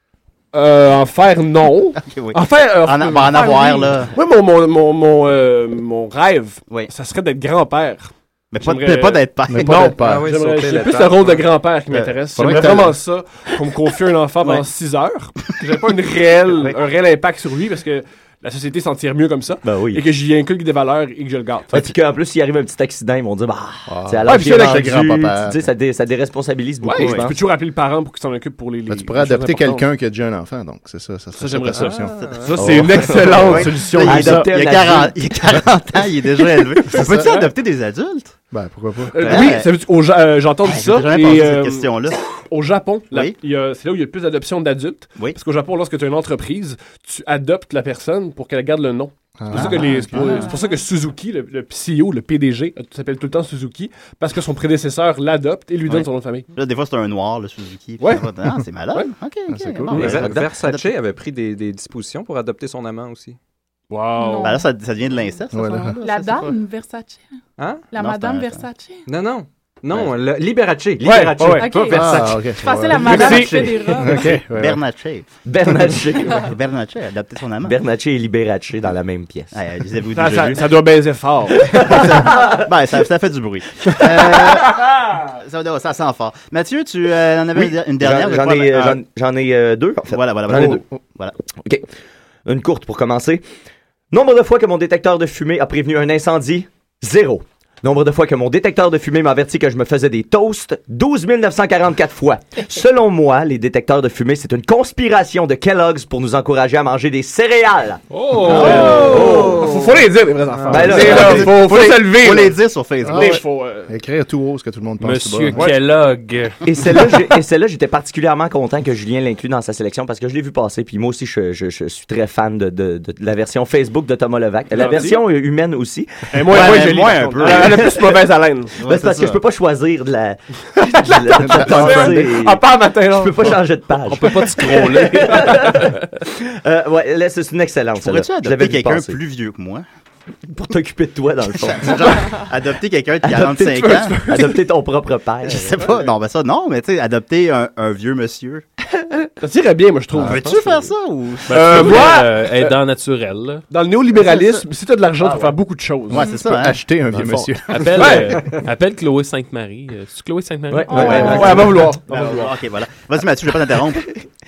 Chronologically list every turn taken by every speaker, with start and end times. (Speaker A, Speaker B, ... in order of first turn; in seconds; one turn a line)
Speaker A: 0.5-21.9
Speaker B: 2.0-4.2
Speaker C: 3.3-3.9
Speaker B: 8.5-10.0
Speaker D: 9.5-10.3
Speaker E: 10.0-11.4
Speaker B: 11.9-12.8
Speaker D: 12.3-13.0
Speaker F: 19.6-20.1
Speaker F: 21.7-27.4
Speaker D: 23.9-25.6
Speaker A: 24.2-24.9
Speaker A: 26.8-29.9
Speaker B: 26.9-27.3
Speaker D: 28.9-32.3
Speaker A: 31.4-34.5
Speaker B: 32.2-38.4
Speaker F: 32.6-35.3
Speaker A: 36.9-37.5
Speaker D: 36.9-37.3
Speaker D: 38.5-39.5
Speaker A: 39.1-56.5
Speaker B: 39.2-39.7
Speaker B: 40.6-42.3
Speaker B: 43.1-43.4
Speaker D: 49.4-50.5
Speaker B: 49.5-50.2
Speaker C: 50.3-50.9
Speaker B: 55.9-60.9
Speaker A: 58.0-58.3
Speaker D: 59.5-60.3
Speaker E: 59.9-63.4
Speaker A: 63.9-64.6
Speaker C: 64.2-64.6
Speaker B: 64.4-66.5
Speaker D: 65.5-66.0
Speaker C: 66.0-67.3
Speaker E: 67.6-67.9
Speaker C: 67.9-69.0
Speaker B: 67.9-68.7
Speaker E: 69.1-72.4
Speaker A: 71.0-71.7
Speaker C: 71.6-74.2
Speaker D: 71.8-74.8
Speaker A: 73.0-74.5
Speaker B: 73.1-75.3
Speaker F: 75.5-76.5
Speaker B: 75.9-77.8
Speaker F: 77.6-79.5
Speaker B: 79.5-80.7
Speaker A: 80.1-82.1
Speaker F: 81.6-82.6
Speaker B: 81.7-89.0
Speaker F: 87.5-90.8
Speaker B: 90.1-91.3
Speaker F: 92.5-93.4
Speaker F: 94.1-109.8
Speaker G: 108.1-109.3
Speaker A: 108.4-112.6
Speaker B: 108.5-109.5
Speaker F: 110.7-111.8
Speaker D: 110.7-111.0
Speaker B: 110.7-113.4
Speaker D: 113.0-115.7
Speaker A: 113.1-113.9
Speaker G: 115.0-116.6
Speaker F: 116.6-126.8
Speaker A: 124.7-125.2
Speaker A: 126.3-128.8
Speaker B: 126.5-128.1
Speaker F: 127.4-128.0
Speaker F: 128.8-139.2
Speaker B: 128.8-129.4
Speaker A: 130.8-133.6
Speaker G: 134.1-135.9
Speaker B: 138.0-139.8
Speaker F: 140.5-142.4
Speaker B: 141.5-144.2
Speaker F: 143.2-145.9
Speaker A: 143.7-144.6
Speaker B: 145.4-148.7
Speaker A: 149.3-150.8
Speaker B: 150.1-152.1
Speaker A: 151.5-152.8
Speaker G: 151.5-153.6
Speaker A: 153.7-156.3
Speaker B: 154.1-154.6
Speaker F: 155.2-155.6
Speaker B: 156.1-156.8
Speaker D: 156.3-158.3
Speaker G: 157.7-161.7
Speaker A: 157.9-158.6
Speaker F: 160.7-162.0
Speaker A: 160.9-162.5
Speaker D: 161.0-161.7
Speaker B: 161.0-161.3
Speaker B: 162.1-164.1